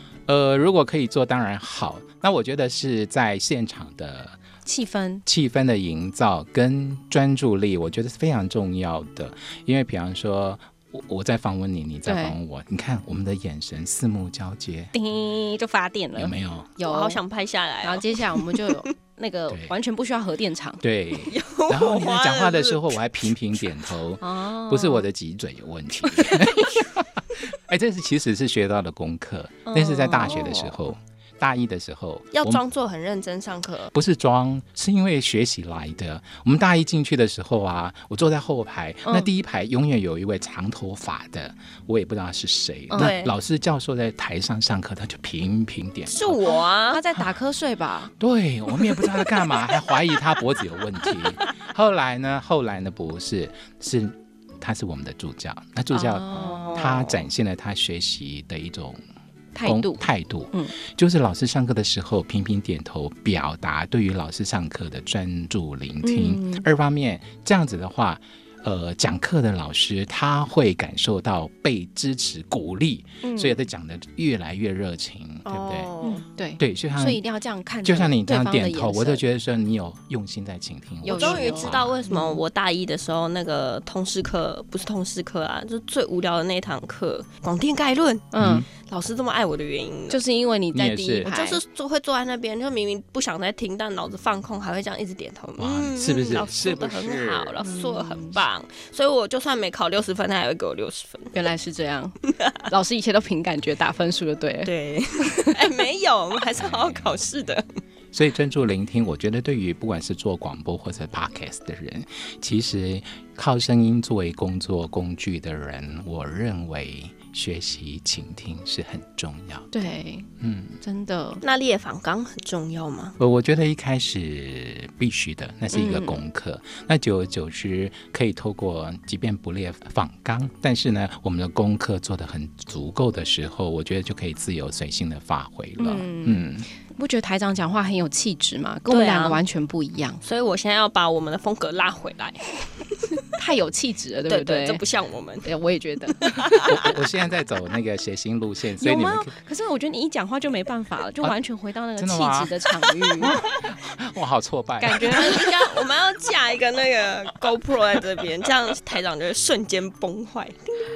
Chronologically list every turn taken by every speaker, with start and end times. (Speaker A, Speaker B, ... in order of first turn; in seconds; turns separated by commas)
Speaker A: 0.3-4.4, Speaker B: 4.7-5.2, Speaker A: 5.3-14.9, Speaker B: 12.1-12.4, Speaker B: 14.9-17.2, Speaker A: 16.2-16.8, Speaker C: 16.8-18.7, Speaker B: 17.8-20.8, Speaker A: 20.8-32.6, Speaker C: 21.2-22.8, Speaker B: 24.2-25.1, Speaker B: 26.1-26.8, Speaker B: 29.7-30.6, Speaker C: 30.3-30.7, Speaker C: 32.3-33.9, Speaker A: 33.9-46.4, Speaker C: 43.0-43.3, Speaker C: 46.1-47.0, Speaker B: 46.5-48.1, Speaker A: 48.2-59.0, Speaker B: 55.9-56.9, Speaker C: 56.4-57.3, Speaker B: 59.5-60.8, Speaker A: 59.6-75.9, Speaker B: 66.0-66.7, Speaker B: 73.2-73.6, Speaker C: 75.5-76.2, Speaker B: 76.0-79.2, Speaker A: 76.6-77.2, Speaker A: 77.8-82.0, Speaker B: 81.0-82.4, Speaker C: 81.1-90.2, Speaker B: 88.3-88.7, Speaker A: 88.4-88.7, Speaker B: 90.1-91.6, Speaker A: 90.7-91.3, Speaker C: 91.2-101.3, Speaker A: 95.6-97.6, Speaker B: 97.6-98.4, Speaker B: 101.3-102.2, Speaker B: 102.7-105.6, Speaker C: 104.7-107.7, Speaker A: 106.6-107.1, Speaker A: 108.1-119.7, Speaker B: 119.7-120.3, Speaker A: 120.4-120.8, Speaker B: 120.8-121.4, Speaker C: 121.4-123.2, Speaker A: 123.2-136.7, Speaker B: 125.7-126.2, Speaker B: 135.8-140.2, Speaker C: 138.9-139.4, Speaker C: 140.2-143.1, Speaker B: 143.3-144.8, Speaker C: 144.3-145.5, Speaker B: 145.4-146.8, Speaker C: 146.2-146.8, Speaker A: 146.6-149.3, Speaker B: 148.8-153.4, Speaker A: 152.0-152.6, Speaker A: 153.2-155.2, Speaker B: 154.8-155.5, Speaker C: 155.1-160.8